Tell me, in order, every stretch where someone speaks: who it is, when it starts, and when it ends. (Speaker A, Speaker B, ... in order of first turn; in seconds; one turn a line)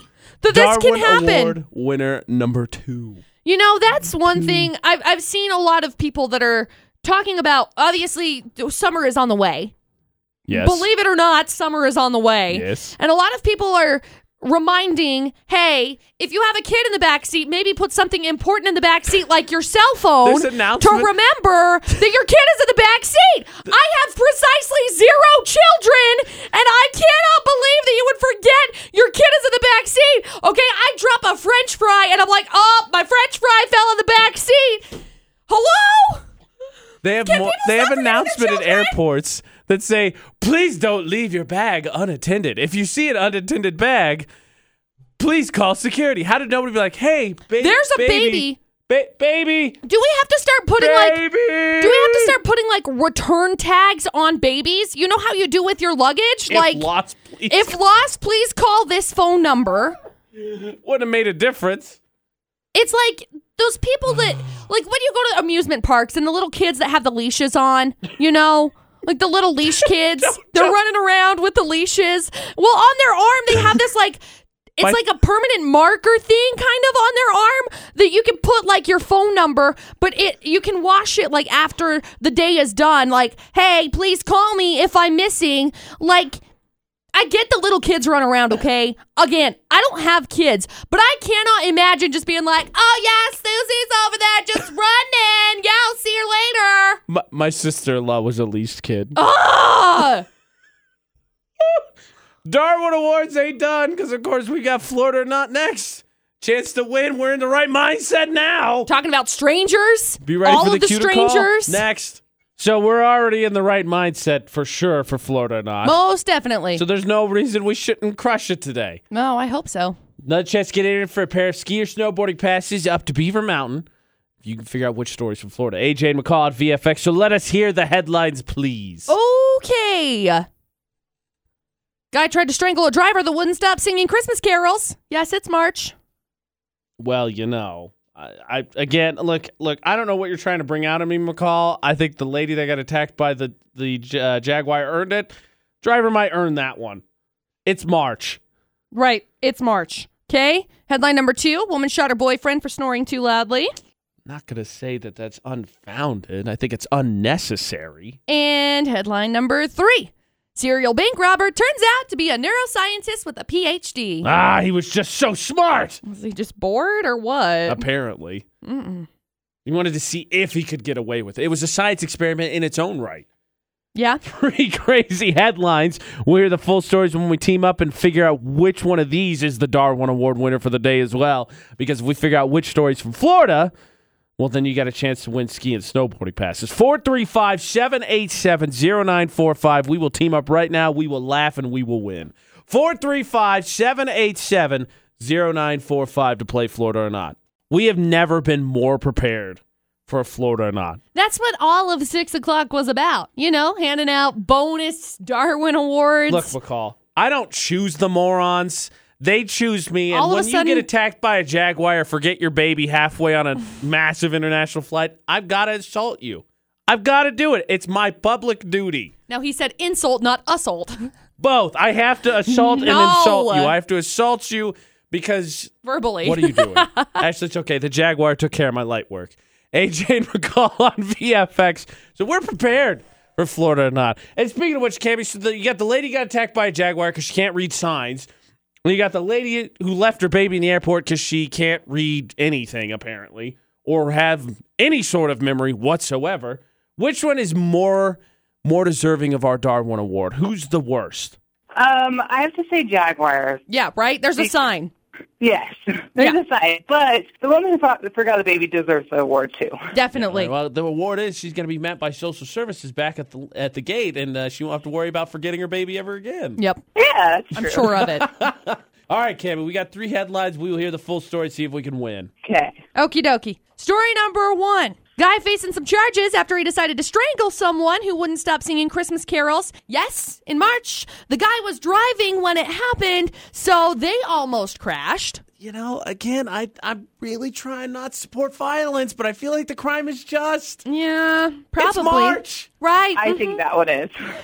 Speaker A: 0.4-1.6
Speaker B: 0.5-3.2
Speaker A: 3.4-9.7
Speaker B: 4.4-4.7
Speaker B: 10.5-10.9
Speaker A: 10.5-36.2
Speaker B: 12.5-12.9
Speaker B: 20.2-21.1
Speaker B: 37.0-44.3
Speaker A: 37.2-38.9
Speaker B: 45.2-49.8
Speaker A: 47.6-48.6
Speaker A: 49.9-56.9
Speaker B: 50.8-52.4
Speaker B: 56.5-57.8
Speaker A: 57.5-59.9
Speaker B: 60.4-62.0
Speaker A: 62.7-74.2
Speaker B: 69.8-70.7
Speaker A: 74.8-86.4
Speaker A: 87.1-97.0
Speaker B: 97.1-99.2
Speaker A: 99.2-100.2
Speaker B: 102.4-108.9
Speaker A: 108.9-111.8
Speaker B: 110.2-116.0
Speaker A: 115.8-116.8
Speaker B: 116.7-119.0
Speaker A: 119.1-120.0
Speaker B: 120.2-123.8
Speaker B: 124.4-129.1
Speaker A: 129.1-130.4
Speaker A: 132.1-135.9
Speaker B: 137.0-147.0
Speaker B: 147.7-148.4
Speaker A: 148.9-153.7
Speaker B: 154.2-158.2
Speaker A: 158.3-164.3
Speaker B: 164.2-166.0
Speaker A: 166.0-167.8
Speaker B: 167.7-168.4
Speaker A: 168.6-169.1
Speaker B: 169.7-173.2
Speaker A: 173.9-174.2
Speaker B: 174.2-183.7
Speaker B: 184.4-201.0
Speaker A: 201.1-206.5
Speaker B: 206.3-219.1
Speaker A: 210.1-210.9
Speaker A: 219.3-221.0
Speaker B: 221.4-225.7
Speaker A: 222.5-223.8
Speaker A: 225.8-227.2
Speaker B: 226.2-238.3
Speaker B: 238.8-251.4
Speaker C: 251.8-253.6
Speaker A: 253.7-254.9
Speaker C: 255.4-259.8
Speaker A: 259.9-260.5
Speaker B: 260.1-266.6
Speaker A: 266.6-266.8
Speaker C: 266.9-267.9
Speaker A: 267.5-268.3
Speaker B: 267.8-272.3
Speaker C: 272.4-272.8
Speaker A: 272.9-285.4
Speaker B: 285.6-290.8
Speaker A: 290.9-293.6
Speaker B: 291.8-292.7
Speaker C: 293.1-294.1